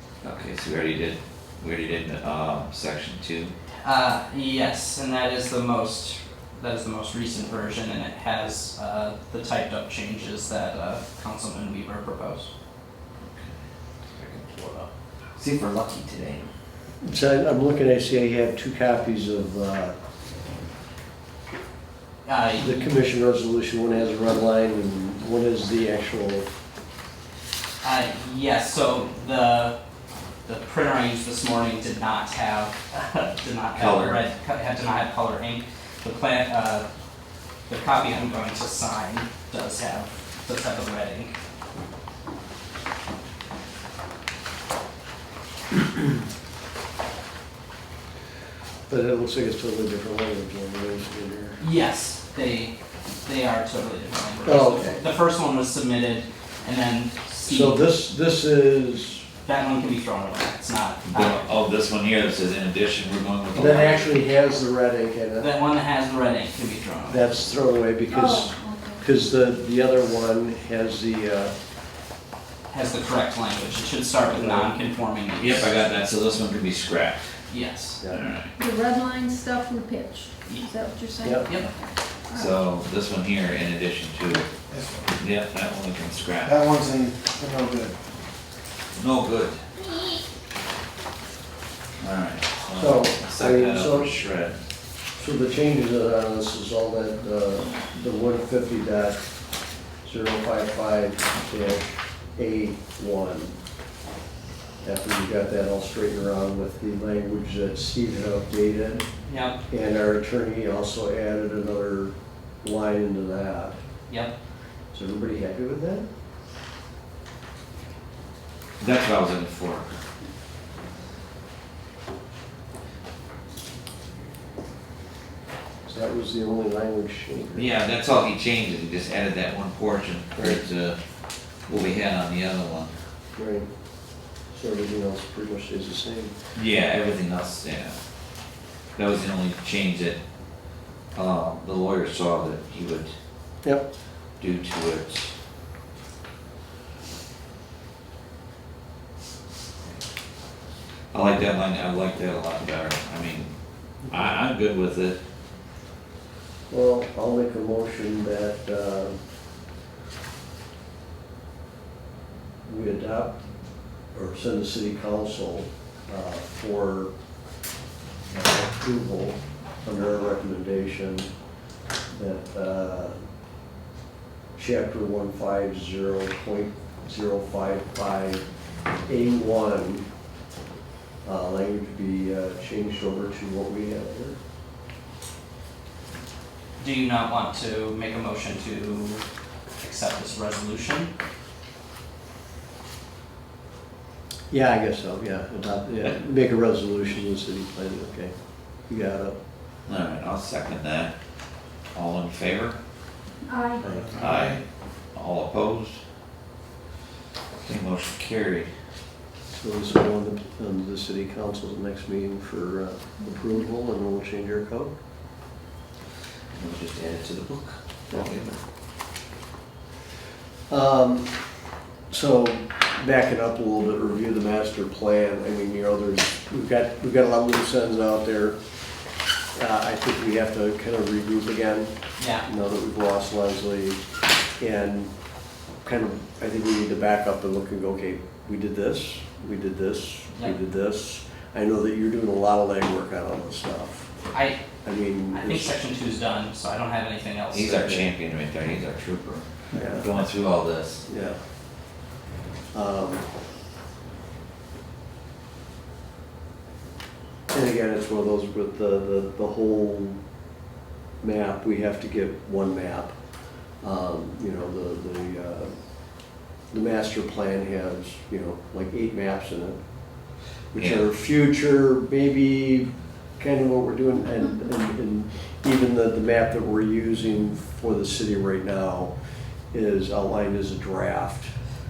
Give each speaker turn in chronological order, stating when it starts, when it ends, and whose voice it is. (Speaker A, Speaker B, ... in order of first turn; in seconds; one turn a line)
Speaker A: 0.2-3.5
Speaker B: 3.8-12.5
Speaker A: 13.2-13.6
Speaker A: 14.2-16.5
Speaker C: 17.0-20.0
Speaker B: 22.2-22.9
Speaker C: 22.6-26.5
Speaker B: 27.8-29.8
Speaker B: 30.5-36.9
Speaker A: 33.8-34.2
Speaker B: 37.7-41.3
Speaker C: 48.9-51.6
Speaker B: 51.6-57.8
Speaker C: 54.4-55.0
Speaker C: 57.5-59.2
Speaker B: 59.5-61.5
Speaker A: 61.1-64.2
Speaker C: 63.5-65.5
Speaker B: 65.4-67.3
Speaker C: 67.1-71.5
Speaker D: 68.1-69.0
Speaker B: 72.7-75.7
Speaker C: 74.3-74.7
Speaker A: 75.4-77.3
Speaker B: 77.5-78.0
Speaker A: 78.1-78.5
Speaker D: 78.6-82.5
Speaker C: 81.2-81.5
Speaker B: 81.4-81.7
Speaker A: 82.3-84.5
Speaker E: 84.7-85.1
Speaker A: 85.2-86.7
Speaker E: 86.4-88.0
Speaker A: 89.0-89.6
Speaker A: 92.0-94.6
Speaker C: 92.8-94.1
Speaker C: 95.2-99.2
Speaker C: 100.0-103.5
Speaker C: 104.8-109.1
Speaker B: 109.3-109.6
Speaker C: 109.7-113.8
Speaker B: 114.1-114.3
Speaker C: 114.9-116.0
Speaker A: 118.8-120.0
Speaker C: 125.8-127.7
Speaker A: 127.5-131.0
Speaker A: 131.7-132.9
Speaker C: 133.4-133.7
Speaker C: 134.5-136.3
Speaker A: 136.6-138.0
Speaker A: 139.0-140.2
Speaker A: 141.2-143.1
Speaker A: 144.4-145.3
Speaker A: 151.1-153.5
Speaker A: 154.1-155.2
Speaker C: 156.7-159.2
Speaker C: 162.7-163.4
Speaker C: 164.1-167.1
Speaker C: 168.3-171.3
Speaker C: 172.1-173.2
Speaker C: 174.6-178.4
Speaker C: 179.1-180.1
Speaker C: 181.2-184.4
Speaker B: 186.8-189.3
Speaker B: 189.8-191.1
Speaker C: 194.5-198.3
Speaker C: 198.9-199.4
Speaker A: 199.9-201.1
Speaker A: 201.9-202.8
Speaker D: 203.5-203.8
Speaker C: 203.8-204.2
Speaker A: 204.1-206.0
Speaker A: 207.6-208.7
Speaker C: 209.5-214.9
Speaker A: 216.6-218.6
Speaker C: 220.7-221.3
Speaker C: 222.1-228.6
Speaker C: 229.6-231.9
Speaker B: 232.2-232.5
Speaker C: 232.4-234.0
Speaker C: 234.6-235.1
Speaker C: 235.8-244.1
Speaker B: 244.3-244.6
Speaker C: 244.8-245.7
Speaker B: 245.3-247.9
Speaker A: 247.5-251.0
Speaker C: 247.7-248.1
Speaker C: 249.7-250.1
Speaker C: 251.1-251.4
Speaker C: 252.7-253.2
Speaker C: 257.5-260.2
Speaker C: 261.2-263.1
Speaker C: 263.8-265.7
Speaker C: 266.7-269.8
Speaker C: 270.7-279.1
Speaker A: 270.8-271.1
Speaker C: 279.7-281.5